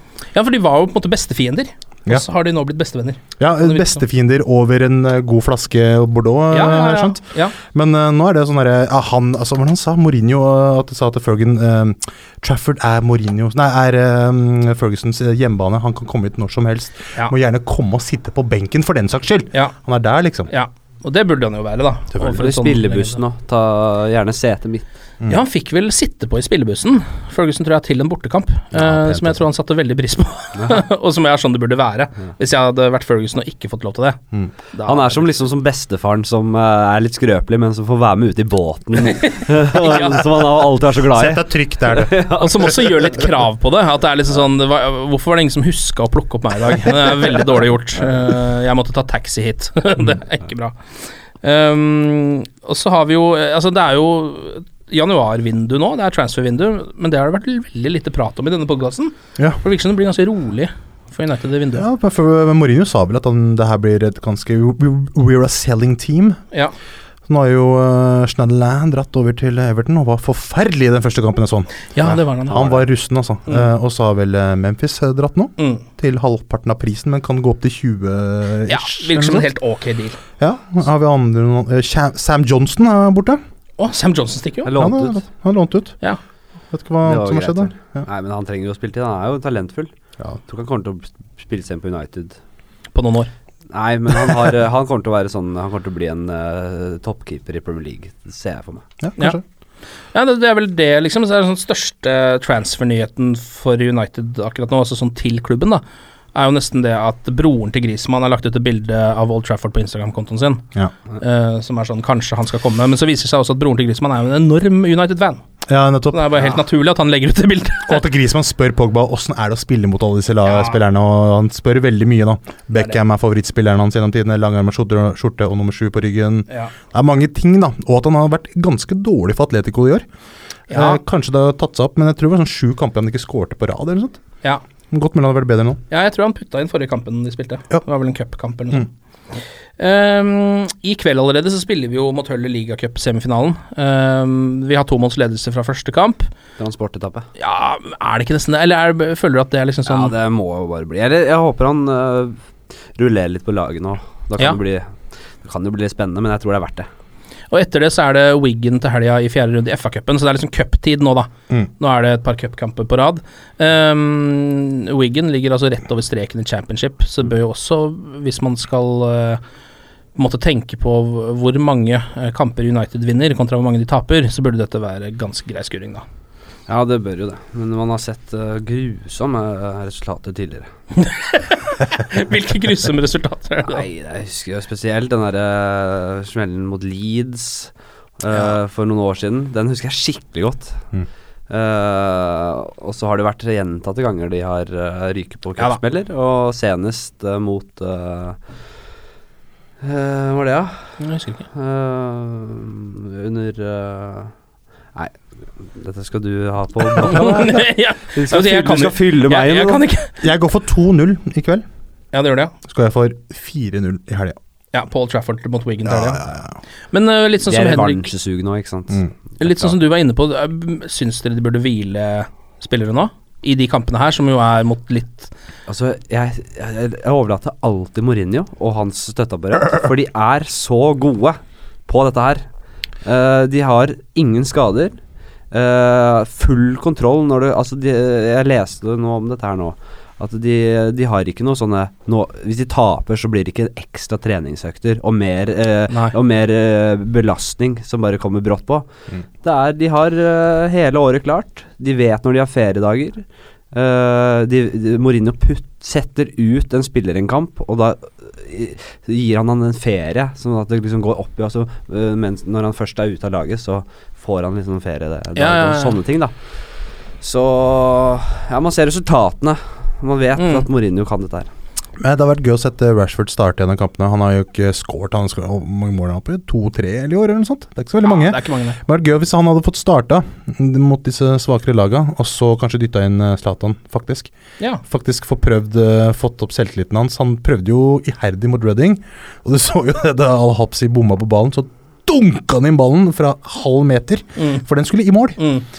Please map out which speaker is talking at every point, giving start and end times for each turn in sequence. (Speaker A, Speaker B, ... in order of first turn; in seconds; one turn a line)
Speaker A: 0.3-4.0
Speaker B: 3.4-20.5
Speaker A: 6.5-7.5
Speaker A: 20.5-23.2
Speaker C: 22.2-24.9
Speaker A: 25.3-34.2
Speaker B: 28.7-29.4
Speaker C: 30.6-30.8
Speaker A: 34.7-35.2
Speaker C: 34.9-42.8
Speaker A: 39.0-40.3
Speaker B: 41.1-42.6
Speaker A: 42.4-50.8
Speaker A: 51.4-61.9
Speaker B: 61.7-66.4
Speaker B: 67.3-79.5
Speaker A: 71.9-72.6
Speaker C: 72.5-72.8
Speaker A: 75.6-75.8
Speaker A: 78.7-80.2
Speaker B: 80.4-83.4
Speaker A: 83.8-84.7
Speaker C: 84.6-85.2
Speaker B: 84.8-86.0
Speaker B: 86.7-88.0
Speaker C: 87.0-89.9
Speaker C: 90.5-92.4
Speaker A: 92.9-93.3
Speaker C: 93.7-98.8
Speaker B: 99.0-99.4
Speaker A: 100.1-105.8
Speaker A: 106.3-110.6
Speaker A: 111.2-115.4
Speaker B: 115.7-116.4
Speaker A: 116.1-118.0
Speaker B: 117.9-130.1
Speaker A: 120.5-120.8
Speaker A: 130.7-131.0
Speaker B: 130.7-134.2
Speaker B: 134.9-135.8
Speaker A: 135.9-138.9
Speaker A: 139.8-146.3
Speaker C: 146.6-147.3
Speaker A: 147.4-150.1
Speaker C: 149.9-152.4
Speaker C: 152.9-156.9
Speaker A: 157.5-169.4
Speaker A: 170.2-176.0
Speaker C: 176.7-180.7
Speaker A: 181.0-183.8
Speaker C: 183.6-190.8
Speaker C: 191.5-198.4
Speaker C: 199.8-201.0
Speaker A: 201.0-201.5
Speaker C: 201.5-204.3
Speaker C: 204.9-209.8
Speaker A: 207.0-210.1
Speaker B: 210.2-211.6
Speaker A: 212.1-212.5
Speaker B: 212.7-214.3
Speaker A: 214.7-216.2
Speaker B: 215.8-216.6
Speaker A: 216.9-218.1
Speaker C: 217.5-219.7
Speaker A: 219.4-225.3
Speaker C: 225.7-232.5
Speaker C: 233.0-235.0
Speaker C: 235.5-248.9
Speaker A: 245.9-246.1
Speaker C: 249.4-266.3
Speaker A: 265.4-266.0
Speaker C: 267.2-271.5
Speaker A: 270.4-270.7
Speaker B: 272.0-284.3
Speaker A: 278.0-278.8
Speaker B: 284.8-295.4
Speaker A: 294.4-294.6
Speaker A: 295.4-295.6